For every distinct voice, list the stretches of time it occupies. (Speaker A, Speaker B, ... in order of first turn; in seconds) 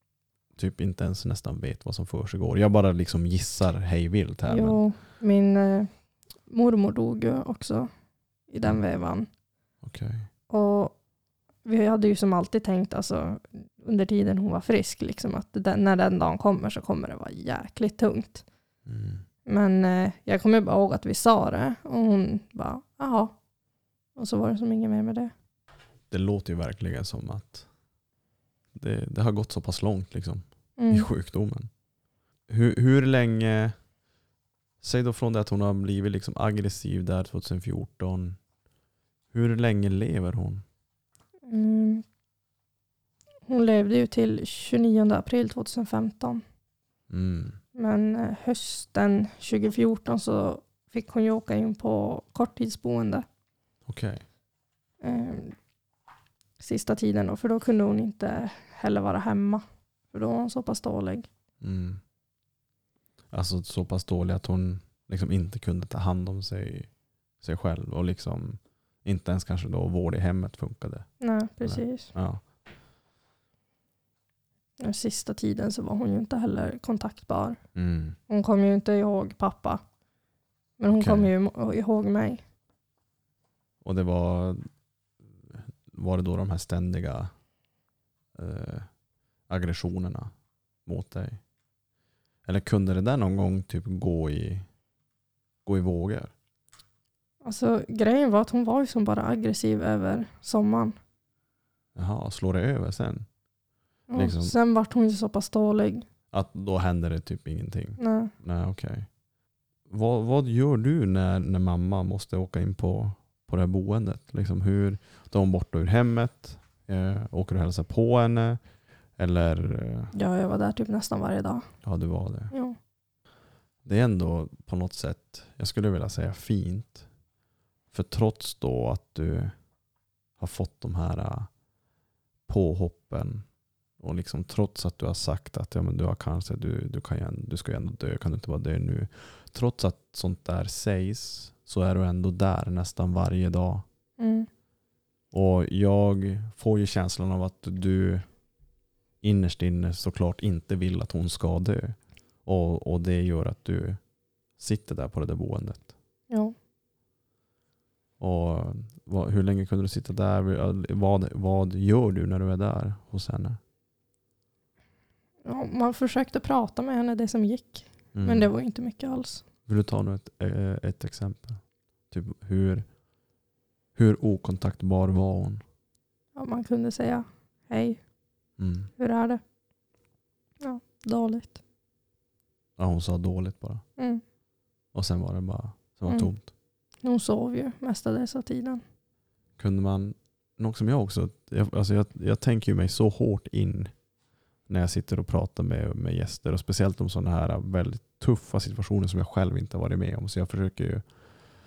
Speaker A: 0.6-4.8, 9.8-10.3, 18.9-19.2, 26.1-27.6, 28.7-31.7, 32.5-33.7, 34.8-38.4, 39.3-40.6, 47.1-47.6, 53.9-54.2, 61.6-62.0, 63.3-66.9, 67.4-71.1, 71.6-72.4, 77.7-78.2, 80.9-81.3, 83.8-84.6, 85.5-87.3, 88.3-88.9, 89.5-90.3, 90.8-91.4, 92.4-94.7, 95.6-96.3, 101.9-103.3, 104.1-104.5, 106.3-109.1, 109.9-118.6, 119.2-120.1, 121.8-122.5, 123.8-127.1, 127.9-129.5, 130.4-131.5, 132.5-133.4, 134.0-143.8, 145.3-148.2, 149.2-154.0, 154.6-155.9, 158.2-163.6, 168.1-168.5, 169.7-172.8, 173.9-175.6, 178.6-178.9, 182.8-183.8, 184.9-186.5, 189.6-193.9, 194.7-201.1
Speaker B: 4.5-5.9, 6.5-7.9, 8.5-9.3, 10.5-10.9, 11.6-18.4, 19.4-23.3, 24.1-25.3, 30.8-31.1, 41.5-42.0, 43.5-46.4, 47.7-53.2, 55.0-55.5, 56.6-61.3, 71.2-72.1, 74.8-77.6, 78.3-79.8, 80.8-82.4, 97.4-101.0, 104.1-106.0, 108.0-108.3, 120.1-121.7, 122.5-122.8, 144.2-144.5, 165.4-169.4, 176.3-178.0, 179.0-179.4, 180.6-181.6, 187.0-188.8